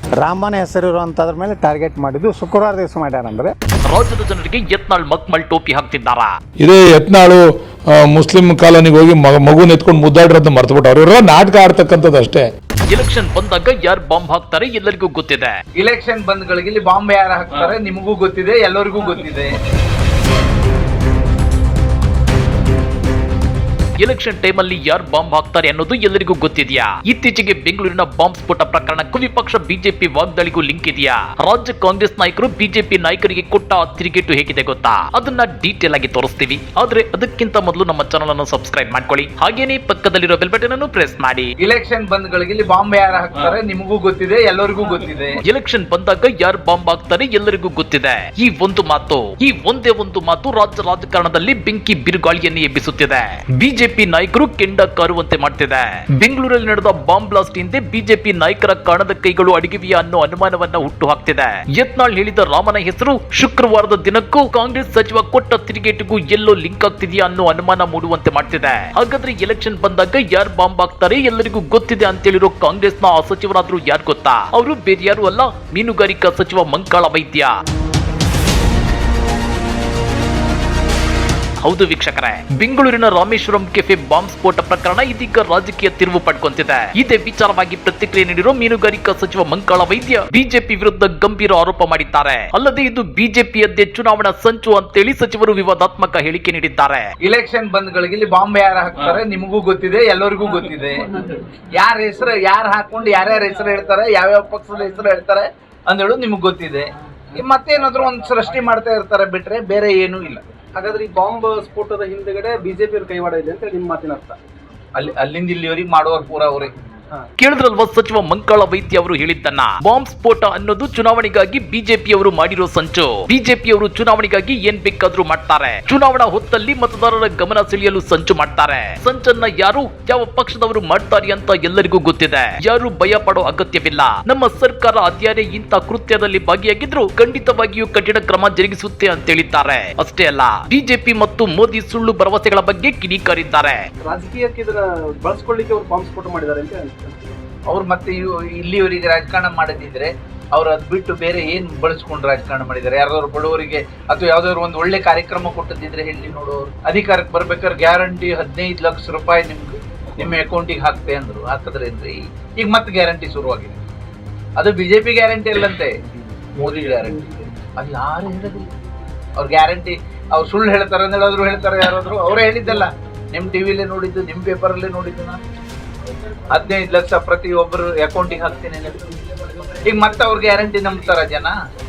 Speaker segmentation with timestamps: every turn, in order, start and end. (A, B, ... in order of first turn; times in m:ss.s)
0:00.2-0:03.5 A
0:03.9-0:06.3 B
0:06.6-0:12.5 C
0:12.9-0:15.5 B
0:15.8-0:19.5 D
0:24.0-0:41.5 B
0:41.6-0:45.4 D
0:45.5-1:17.6 B
1:21.6-1:37.0 B
1:37.2-1:41.0 D
1:41.7-1:50.4 D
1:50.8-1:54.4 E
1:55.0-1:56.7 D
1:57.4-2:23.8 B
2:24.1-2:27.4 E
2:27.7-2:43.8 D
2:44.6-2:45.9 D
2:46.6-2:48.7 D
2:49.4-2:55.4 D
2:56.5-2:59.2 D
2:59.8-3:01.5 D